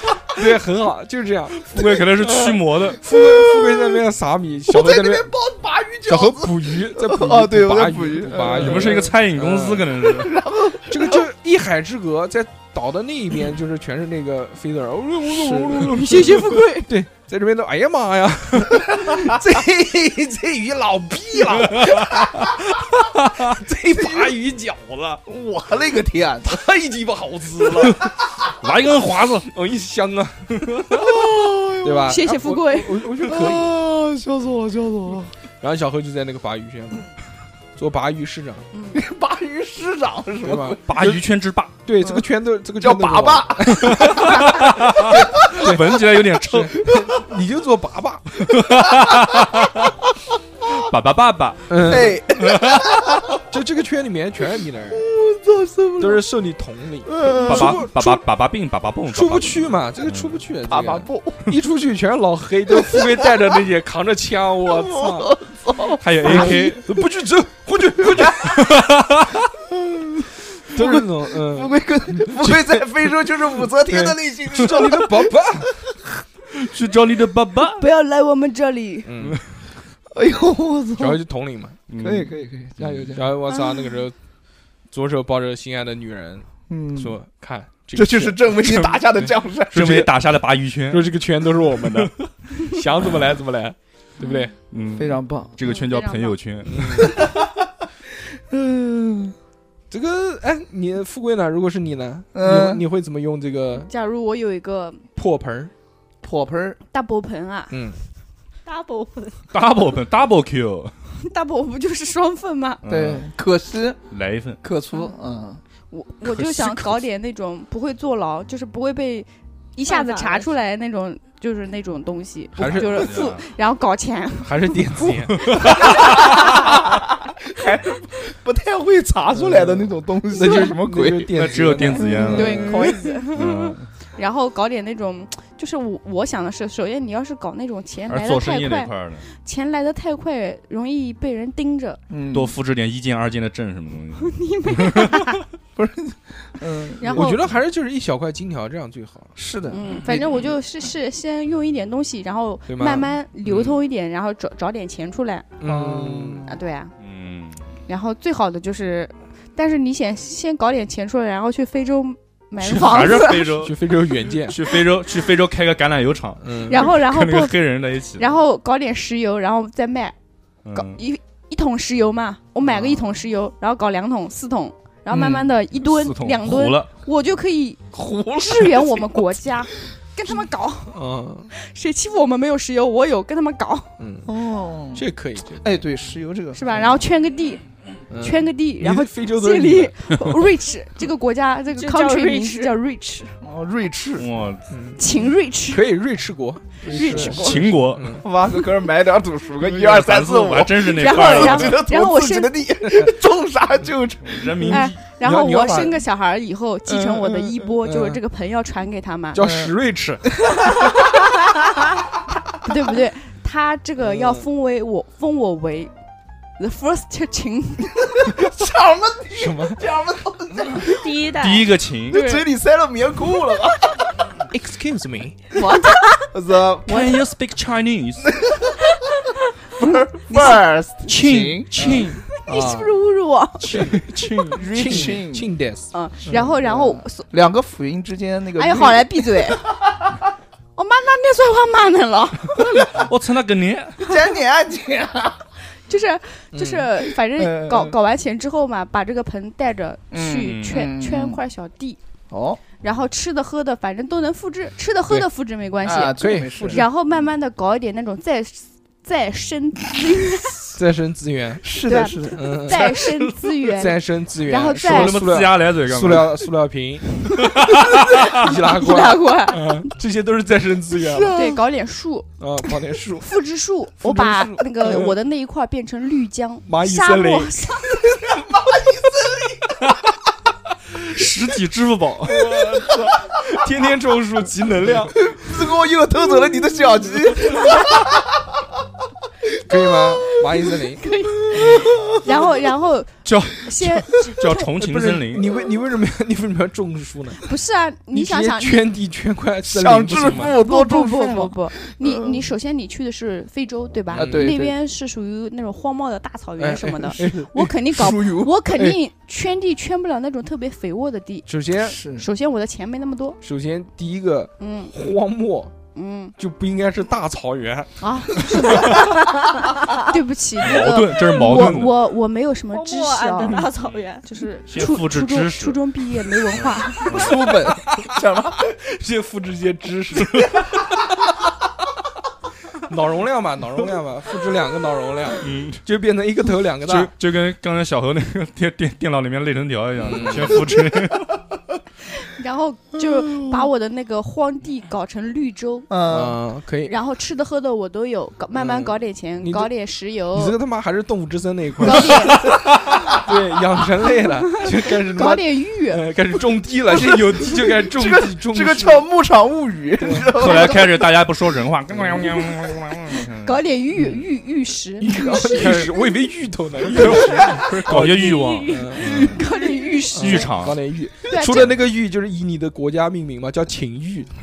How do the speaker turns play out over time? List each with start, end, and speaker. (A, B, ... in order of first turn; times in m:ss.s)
0:00.3-0:05.3 A
0:01.7-0:03.0 B
0:03.2-0:03.9 C
0:04.7-0:09.1 C
0:06.1-0:09.9 A
0:08.5-0:10.4 B
0:10.0-0:11.2 C
0:10.9-0:22.1 A
0:15.8-0:16.9 D
0:18.9-0:20.4 C
0:21.6-0:23.4 B
0:23.4-0:25.2 A
0:23.9-0:24.3 C
0:25.2-0:26.6 C
0:26.5-0:28.0 A
0:28.6-0:29.5 B
0:29.5-0:31.2 A
0:31.0-0:32.0 C
0:31.8-0:33.7 A
0:32.0-0:33.1 D
0:33.2-0:35.3 C
0:35.6-0:37.0 A
0:37.8-0:38.6 A
0:38.7-0:39.0 D
0:38.9-0:40.8 C
0:40.4-0:41.2 A
0:40.8-0:41.7 B
0:41.8-0:44.5 A
0:42.8-0:44.5 C
0:43.9-0:46.8 B
0:45.1-0:45.6 C
0:45.4-0:48.5 A
0:48.4-0:49.9 B
0:50.6-0:53.0 B
0:51.7-0:52.2 A
0:51.8-0:53.4 C
0:53.4-0:55.1 A
0:54.9-0:56.2 C
0:56.0-0:58.2 A
0:57.1-0:57.8 C
0:57.4-1:00.4 B
0:59.1-1:05.3 A
1:00.7-1:01.5 C
1:04.7-1:06.5 C
1:06.0-1:06.8 B
1:06.1-1:08.6 A
1:08.2-1:09.3 B
1:09.8-1:10.1 C
1:10.7-1:12.7 A
1:10.7-1:15.3 C
1:13.9-1:15.7 A
1:16.5-1:17.8 B
1:17.7-1:19.2 D
1:19.0-1:19.4 A
1:20.1-1:21.2 C
1:21.0-1:21.8 A
1:21.9-1:23.2 B
1:22.0-1:23.3 C
1:23.1-1:24.1 A
1:23.5-1:23.9 D
1:24.9-1:28.6 A
1:26.7-1:27.1 C
1:27.9-1:30.0 C
1:29.7-1:31.2 B
1:29.7-1:30.1 A
1:30.9-1:34.5 A
1:31.7-1:32.1 B
1:34.2-1:34.5 D
1:34.7-1:37.1 B
1:34.9-1:35.5 C
1:35.6-1:36.4 D
1:36.7-1:37.2 A
1:37.0-1:37.5 C
1:38.4-1:39.3 C
1:39.9-1:43.9 A
1:42.3-1:42.8 C
1:43.8-1:45.0 D
1:45.2-1:45.7 A
1:46.2-1:46.8 C
1:46.9-1:47.8 D
1:47.7-1:48.0 A
1:48.6-1:49.4 E
1:49.5-1:51.0 B
1:51.2-1:52.8 D
1:52.8-1:53.3 B
1:52.8-1:54.0 C
1:54.1-1:54.6 B
1:54.6-1:55.6 C
1:55.9-2:06.6 D
1:56.3-1:56.9 A
1:59.8-2:00.5 E
2:02.6-2:03.1 A
2:02.6-2:03.5 B
2:04.4-2:05.7 A
2:05.5-2:06.4 B
2:06.1-2:13.1 C
2:09.3-2:12.8 A
2:11.3-2:13.8 B
2:12.2-2:22.0 D
2:18.1-2:19.2 B
2:22.1-2:22.6 C
2:22.3-2:25.4 B
2:24.2-2:25.4 D
2:25.8-2:27.2 C
2:27.0-2:27.5 D
2:27.1-2:29.3 A
2:29.4-2:29.8 C
2:29.7-2:35.5 D
2:30.1-2:30.4 A
2:32.7-2:33.1 A
2:33.4-2:33.8 B
2:35.6-2:36.5 A
2:35.6-2:36.5 C
2:36.4-2:36.9 D
2:37.0-2:37.7 B
2:37.9-2:43.6 D
2:42.6-2:43.8 B
2:43.6-2:44.6 A
2:44.4-2:48.3 B
2:46.4-2:46.8 A
2:46.6-2:47.6 D
2:48.2-2:50.1 D
2:50.6-2:51.0 B
2:50.7-2:57.8 D
2:52.6-2:53.1 A
2:55.1-2:55.5 A
2:55.7-2:56.9 B
2:57.9-2:59.2 C
2:58.4-3:01.0 D
3:00.9-3:01.5 A
3:01.5-3:03.9 D
3:04.0-3:04.3 A
3:04.2-3:05.0 C
3:04.9-3:05.7 A
3:05.6-3:06.6 C
3:06.5-3:07.6 D
3:08.1-3:09.9 A
3:08.2-3:13.4 D
3:11.7-3:12.7 E
3:13.4-3:14.3 C
3:14.2-3:14.6 B
3:14.7-3:15.0 A
3:15.0-3:15.9 D
3:15.7-3:18.2 A
3:16.8-3:24.8 C
3:16.9-3:17.6 D
3:17.3-3:18.2 B
3:19.6-3:21.8 B
3:20.9-3:22.6 D
3:24.2-3:25.0 B
3:24.6-3:29.4 D
3:25.2-3:26.0 A
3:26.9-3:27.6 C
3:27.8-3:28.2 A
3:29.3-3:30.2 A
3:29.4-3:29.7 C
3:32.6-3:35.9 D
3:34.0-3:34.4 A
3:36.6-3:38.0 D
3:38.0-3:41.1 C
3:39.3-3:39.8 A
3:40.8-3:41.8 E
3:41.3-3:42.2 B
3:42.1-3:44.0 C
3:42.1-3:42.5 D
3:44.5-3:45.4 A
3:45.5-3:46.3 D
3:46.3-3:47.2 C
3:46.8-3:48.4 B
3:49.8-3:52.9 C
3:49.8-3:50.6 D
3:51.0-3:52.2 B
3:52.3-3:53.9 D
3:52.5-3:52.8 A
3:53.6-3:55.9 A
3:53.8-3:55.2 B
3:54.6-3:55.5 C
3:55.9-3:57.3 D
3:56.2-3:59.9 C
3:58.5-3:59.7 D
4:00.8-4:03.0 D
4:02.6-4:04.0 B
4:04.0-4:05.4 C
4:05.9-4:12.0 D
4:06.5-4:06.9 A
4:07.3-4:07.9 C
4:10.1-4:11.4 C
4:10.4-4:10.9 B
4:12.3-4:12.6 C
4:12.7-4:20.8 D
4:15.8-4:16.8 C
4:16.2-4:16.8 A
4:20.8-4:21.7 A
4:21.6-4:22.4 C
4:21.8-4:25.3 D
4:22.3-4:23.0 A
4:23.7-4:27.2 A
4:24.8-4:26.5 B
4:27.4-4:28.4 B
4:28.2-4:31.4 A
4:28.4-4:29.9 D
4:31.0-4:31.6 C
4:31.3-4:32.3 D
4:32.4-4:33.3 A
4:33.1-4:38.2 D
4:34.0-4:35.2 A
4:36.7-4:37.5 A
4:38.0-4:39.7 C
4:41.0-4:42.5 B
4:42.2-4:45.2 A
4:45.2-4:48.3 C
4:49.6-4:51.0 A
4:50.9-4:54.7 D
4:51.5-4:52.2 C
4:53.2-4:55.5 B
4:54.8-4:57.4 A
4:57.4-4:58.9 D
4:58.1-5:00.5 A
4:59.7-5:02.4 C
5:00.4-5:13.4 D
5:04.1-5:04.6 A
5:04.1-5:04.8 C
5:06.6-5:08.1 A
5:07.9-5:08.8 C
5:11.5-5:12.0 A
5:11.8-5:12.2 C
5:13.4-5:15.7 A
5:14.6-5:14.9 D
5:15.9-5:16.3 D
5:16.4-5:18.4 A
5:18.0-5:23.7 D
5:20.6-5:22.0 B
5:22.7-5:24.2 E
5:23.7-5:24.1 B
5:24.2-5:27.4 D
5:24.7-5:25.8 B
5:26.5-5:27.3 B
5:27.1-5:28.7 C
5:28.8-5:30.6 A
5:30.3-5:30.6 B
5:32.9-5:37.1 A
5:35.4-5:35.8 B
5:36.8-5:41.4 B
5:40.0-5:40.6 A
5:42.2-5:45.9 D
5:45.9-5:46.4 C
5:46.1-5:46.9 A
5:46.8-5:50.6 D
5:48.5-5:49.7 A
5:50.3-5:52.3 A
5:51.8-5:52.5 D
5:52.0-5:52.5 C
5:53.2-5:59.1 A
5:54.5-5:56.0 D
5:57.0-6:01.1 C
6:00.0-6:00.6 A
6:00.3-6:03.6 B
6:01.9-6:02.3 A
6:03.4-6:05.8 D
6:03.9-6:04.2 A
6:05.0-6:09.4 A
6:05.1-6:05.9 C
6:06.8-6:09.5 B
6:07.1-6:08.0 C
6:08.2-6:08.7 E
6:08.7-6:10.5 D
6:10.1-6:10.8 B
6:10.1-6:14.3 A
6:11.2-6:11.8 D